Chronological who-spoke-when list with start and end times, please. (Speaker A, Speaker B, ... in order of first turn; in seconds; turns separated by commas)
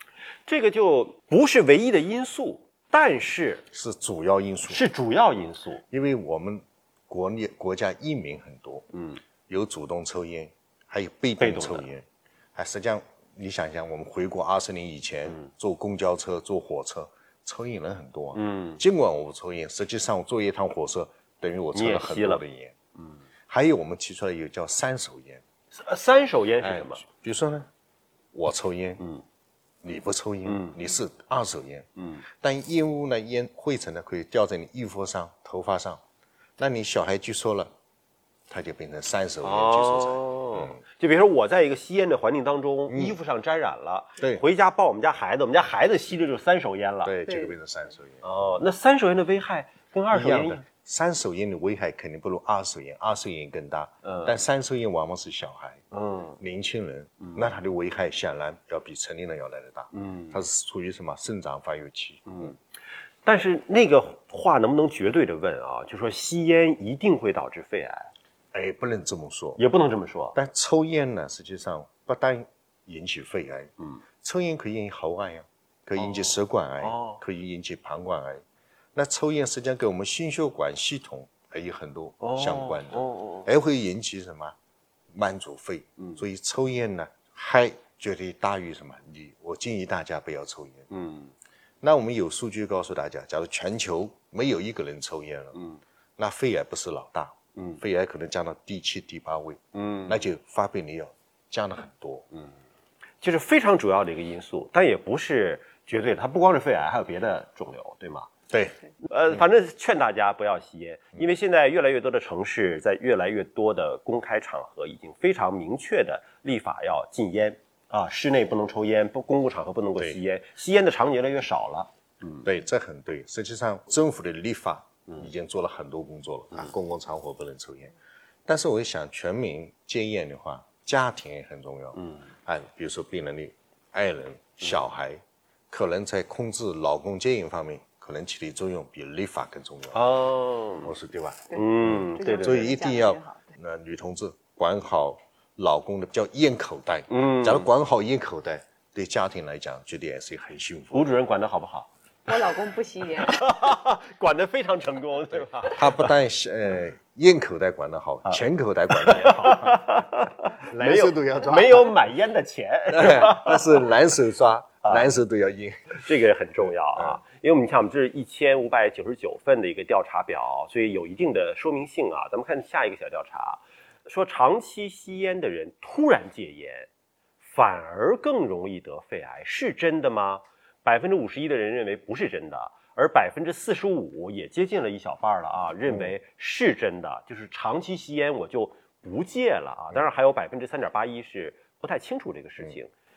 Speaker A: 0.5-3.6, Speaker B: 3.7-4.8, Speaker A: 4.7-5.8, Speaker B: 5.9-8.8, Speaker A: 8.9-9.2, Speaker B: 9.5-22.7, Speaker A: 11.4-11.9, Speaker A: 18.3-18.8, Speaker A: 21.7-22.4, Speaker A: 22.9-23.2, Speaker B: 23.5-25.4, Speaker A: 25.7-27.0, Speaker B: 26.6-27.7, Speaker B: 28.3-29.0, Speaker B: 29.8-31.9, Speaker A: 30.4-30.8, Speaker A: 32.0-32.2, Speaker B: 32.4-36.0, Speaker B: 36.6-37.7, Speaker B: 38.5-40.8, Speaker A: 39.4-47.2, Speaker B: 42.9-43.2, Speaker B: 47.0-48.4, Speaker C: 47.3-47.5, Speaker A: 48.2-50.6, Speaker B: 50.1-55.8, Speaker A: 54.0-54.3, Speaker A: 55.9-56.4, Speaker B: 56.4-62.5, Speaker A: 59.9-60.4, Speaker A: 62.3-62.6, Speaker A: 63.2-68.1, Speaker B: 68.5-69.6, Speaker A: 69.6-70.4, Speaker B: 70.3-78.4, Speaker A: 76.0-77.2, Speaker B: 78.9-84.5, Speaker A: 82.2-83.5, Speaker B: 85.1-90.9, Speaker A: 86.0-86.2, Speaker A: 90.9-91.3, Speaker B: 91.8-95.6, Speaker A: 95.5-95.8, Speaker B: 96.2-102.2, Speaker A: 97.5-97.8, Speaker A: 99.7-100.2, Speaker A: 103.2-108.3, Speaker B: 108.5-108.8, Speaker A: 109.0-122.5, Speaker B: 122.4-127.9, Speaker B: 128.4-140.1, Speaker A: 131.9-132.2, Speaker A: 139.9-140.9, Speaker B: 140.8-151.1, Speaker A: 141.5-142.8, Speaker C: 142.2-143.5, Speaker A: 147.1-147.7, Speaker A: 150.9-151.9, Speaker C: 152.3-153.4, Speaker A: 153.1-156.2, Speaker B: 155.7-159.9, Speaker A: 158.9-163.8, Speaker B: 160.7-161.9, Speaker B: 162.9-166.0, Speaker A: 164.8-165.1, Speaker A: 165.9-176.9, Speaker A: 177.4-192.9, Speaker B: 185.9-186.1